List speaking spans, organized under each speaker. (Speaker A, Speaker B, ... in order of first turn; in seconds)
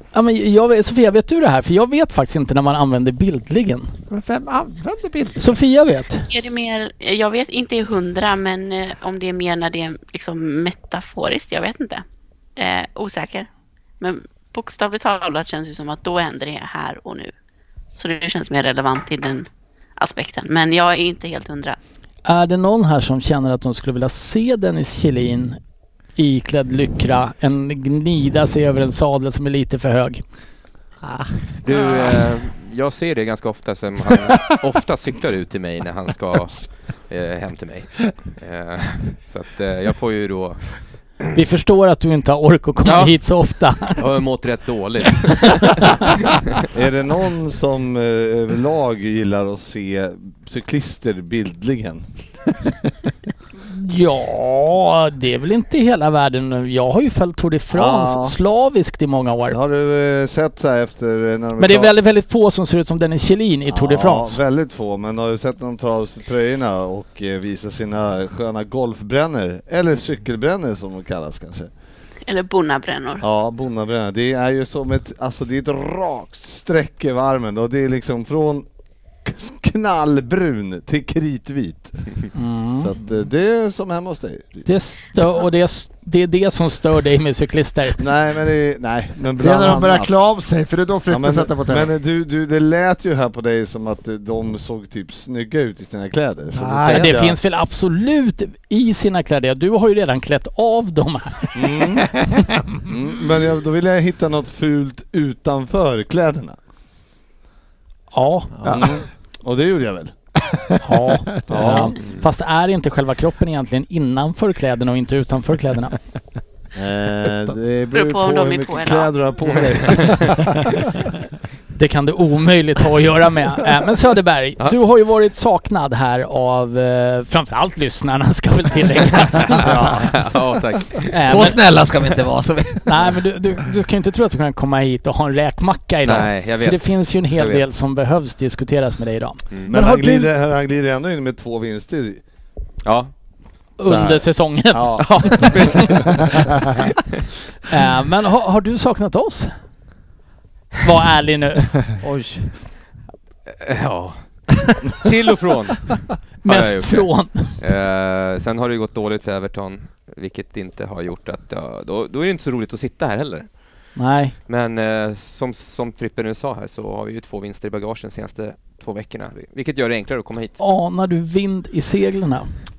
Speaker A: 0.1-3.9, 5.4-6.3, 22.2-25.6, 26.1-30.2, 41.3-44.0, 45.8-46.1, 53.6-59.6, 61.6-64.4, 82.3-82.9, 84.7-88.0, 96.9-101.8, 108.1-108.9, 110.8-115.9, 121.7-130.2, 131.1-131.6, 132.8-140.3, 143.8-146.1, 147.7-149.5, 150.8-151.8, 156.4-157.6, 164.0-164.3, 170.6-172.5
Speaker B: 4.1-5.5, 89.4-91.9
Speaker C: 6.3-12.0, 12.6-13.5, 14.0-17.3, 17.9-19.4, 20.0-21.8, 72.3-73.2, 117.9-119.1
Speaker D: 31.0-31.4, 96.5-97.1, 131.2-133.1, 152.0-152.6
Speaker E: 31.6-40.7, 42.8-43.1, 44.0-46.5, 111.7-112.1, 119.6-120.3, 129.5-131.3, 136.0-137.7, 142.8-143.1, 145.0-146.4, 153.5-163.5, 164.5-170.6
Speaker F: 46.7-52.1, 57.7-58.4, 59.5-61.9, 63.7-71.7, 73.2-78.7, 79.2-82.1, 82.8-84.7, 88.0-90.2, 91.1-97.4, 101.5-102.1, 102.8-106.6, 108.7-110.1, 111.5-111.9, 116.7-120.8, 139.7-142.2, 143.8-146.5